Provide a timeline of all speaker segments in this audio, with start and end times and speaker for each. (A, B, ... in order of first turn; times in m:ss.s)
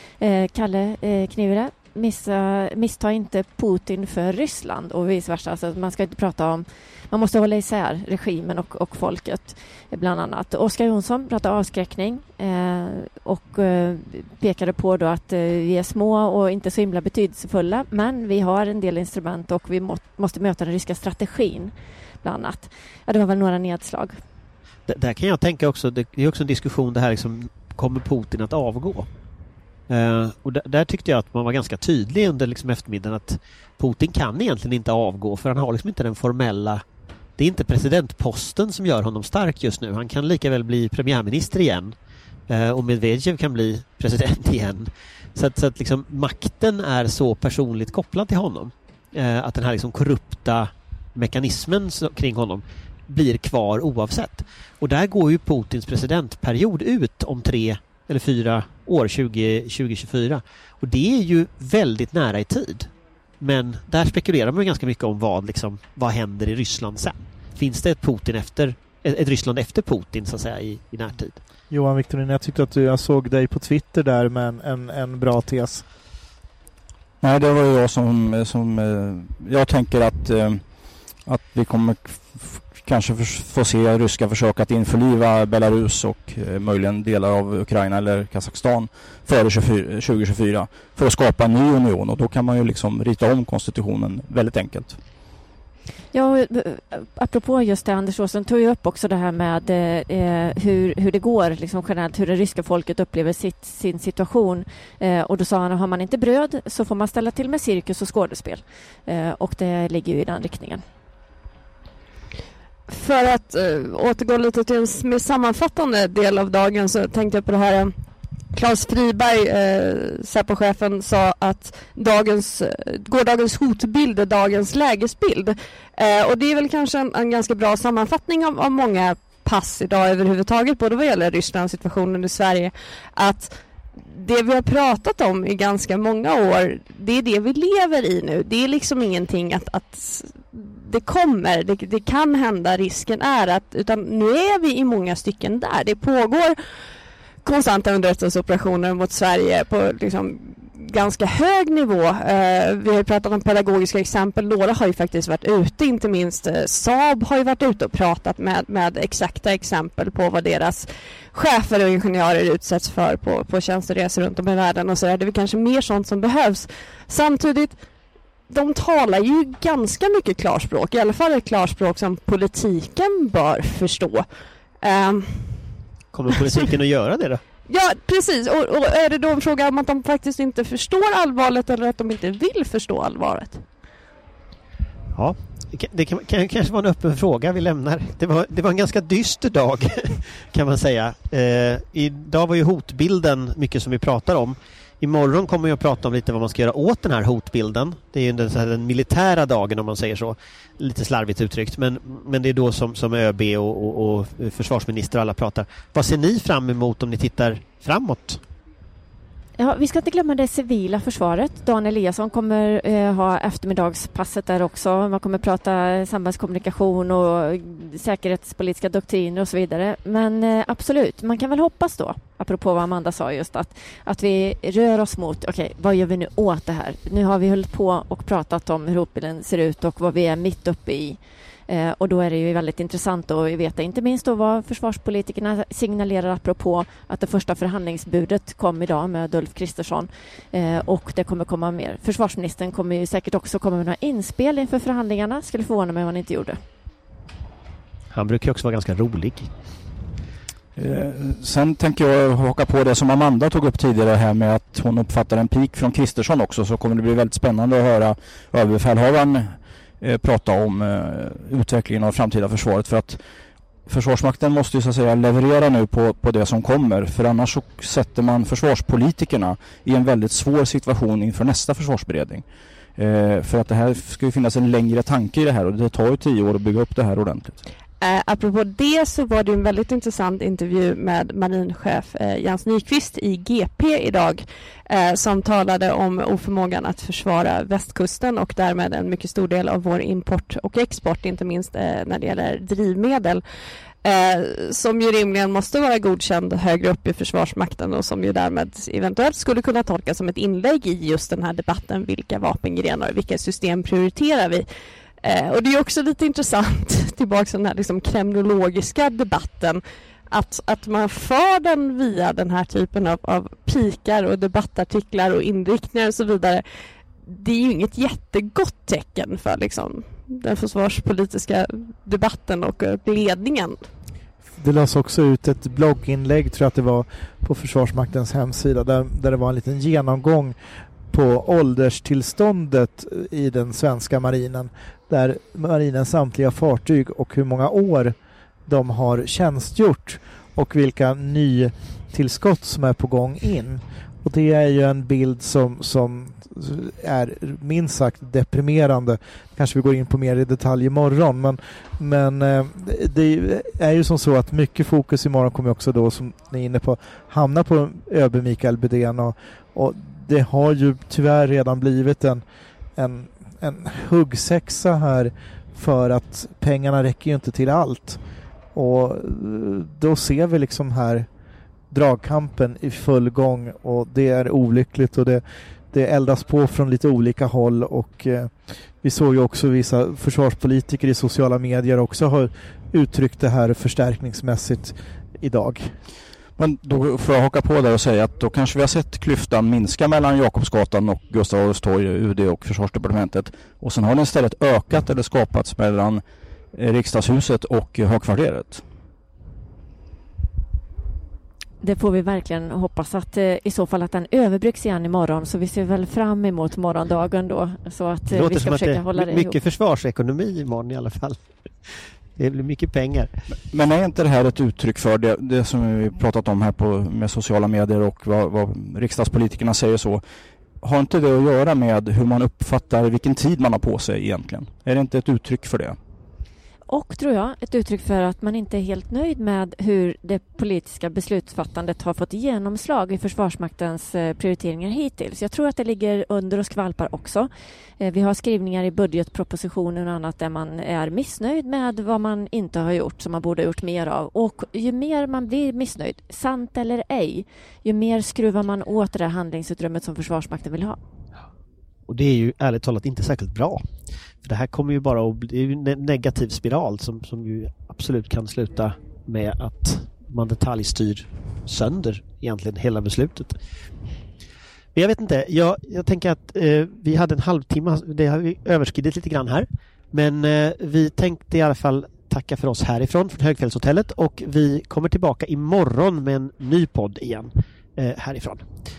0:00.2-0:24.2 A
0:24.9-0:29.1 B
0:29.9-0:36.8 B
0:37.4-0:42.0 B
0:42.5-1:11.4 B
1:11.7-1:15.8 C
1:17.2-1:20.6 D
1:21.2-1:35.0 D
1:36.1-1:50.8 A
1:52.9-1:57.9 E
1:58.5-2:26.6 E
2:27.4-2:47.8 E
2:48.5-2:54.2 E
2:54.8-2:55.6 E
2:56.1-2:57.4 B
2:57.7-3:03.6 E
3:05.2-3:28.4 B
3:29.6-4:06.6 A
4:08.1-4:09.5 B
4:10.8-4:23.2 D
4:23.9-4:32.4 D
4:33.0-4:37.6 D
4:38.0-4:53.4 E
4:54.0-5:04.7 E
5:05.2-5:16.6 E
5:17.2-5:23.8 E
5:24.6-5:30.6 C
5:31.1-5:38.2 C
5:38.7-6:02.4 C
6:03.0-6:08.2 C
6:08.7-6:11.3 C
6:11.9-6:25.9 C
6:26.6-6:36.2 D
6:36.7-6:38.8 D
6:41.8-6:49.6 A
6:48.3-6:53.4 B
6:53.7-7:00.2 D
7:00.8-7:06.0 D
7:06.9-7:17.5 A
7:18.0-7:31.0 A
7:32.1-7:33.9 B
7:34.4-7:43.6 B
7:45.0-7:58.7 B